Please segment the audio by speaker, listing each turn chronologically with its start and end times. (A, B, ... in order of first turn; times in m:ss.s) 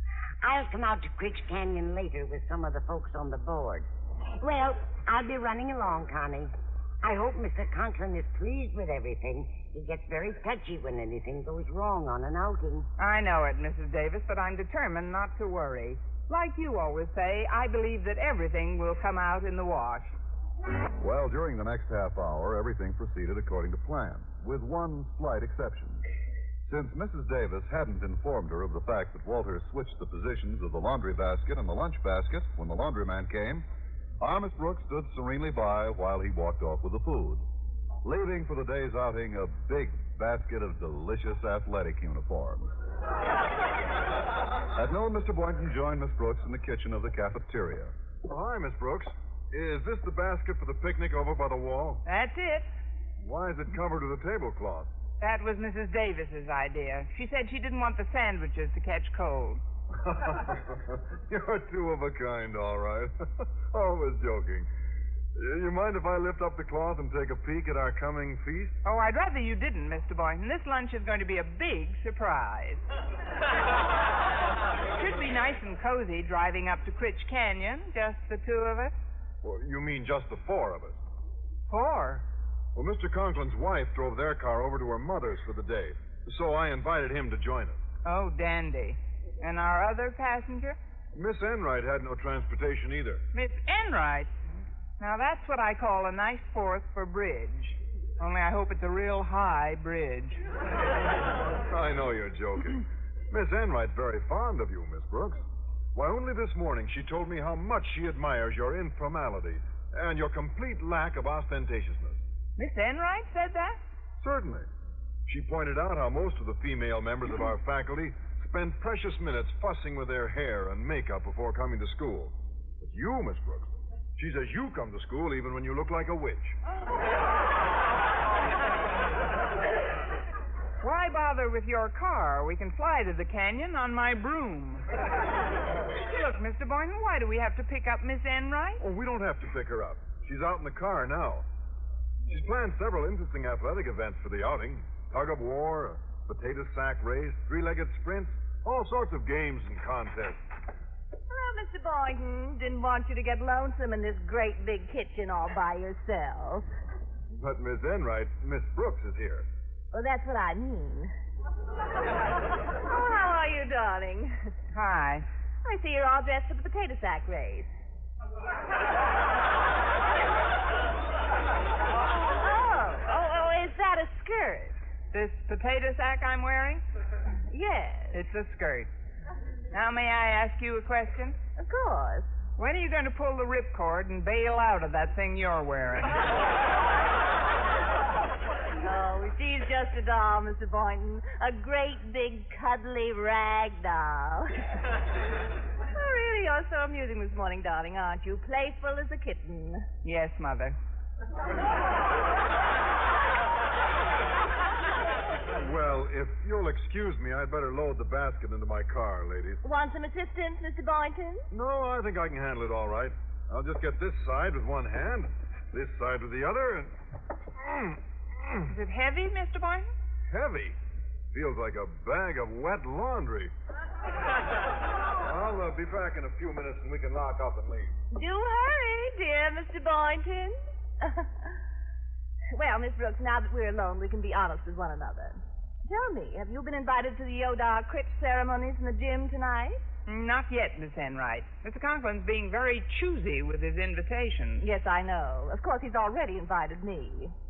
0:00.4-0:06.5 A
0:07.0-0:12.9 A
0:13.0-0:20.1 B
0:21.0-0:26.0 C
0:26.7-0:33.6 C
0:34.2-0:37.4 C
0:38.0-0:42.7 C
0:44.7-0:47.9 C
0:48.2-0:52.0 D
0:52.0-0:52.6 B
0:53.2-0:54.9 D
0:55.2-0:59.6 B
1:00.0-1:04.7 D
1:05.4-1:08.7 D
1:08.8-1:12.8 B
1:14.9-1:18.9 B
1:19.4-1:21.0 D
1:21.7-1:22.2 B
1:22.8-1:27.8 D
1:28.0-1:30.8 B
1:31.1-1:33.2 D
1:33.3-1:34.3 B
1:35.0-1:40.4 B
1:41.6-1:45.4 D
1:45.9-1:52.2 D
1:52.6-1:53.8 B
1:54.2-1:54.7 D
1:55.3-2:06.6 D
2:10.8-2:14.8 B
2:16.0-2:18.8 B
2:18.8-2:21.5 D
2:22.3-2:30.4 D
2:31.3-2:36.6 E
2:37.4-2:39.5 D
2:39.9-2:41.1 E
2:42.8-2:44.3 E
2:44.7-2:45.2 B
2:45.6-2:47.7 E
2:52.3-2:54.8 E
2:55.1-2:56.8 B
2:57.5-2:58.2 E
2:58.1-2:58.9 B
2:59.7-3:01.4 B
3:01.6-3:02.3 E
3:02.6-3:06.2 B
3:08.8-3:14.5 E
3:15.9-3:19.8 E
3:20.0-3:20.8 B
3:25.6-3:29.6 D
3:29.6-3:31.4 E
3:31.5-3:36.9 D
3:37.7-3:38.0 D
3:38.7-3:39.9 B
3:40.3-3:40.8 D
3:41.3-3:43.5 D
3:45.2-3:47.9 D
3:48.1-3:51.6 E
3:52.5-3:59.8 E
4:00.0-4:04.6 B
4:04.6-4:07.3 E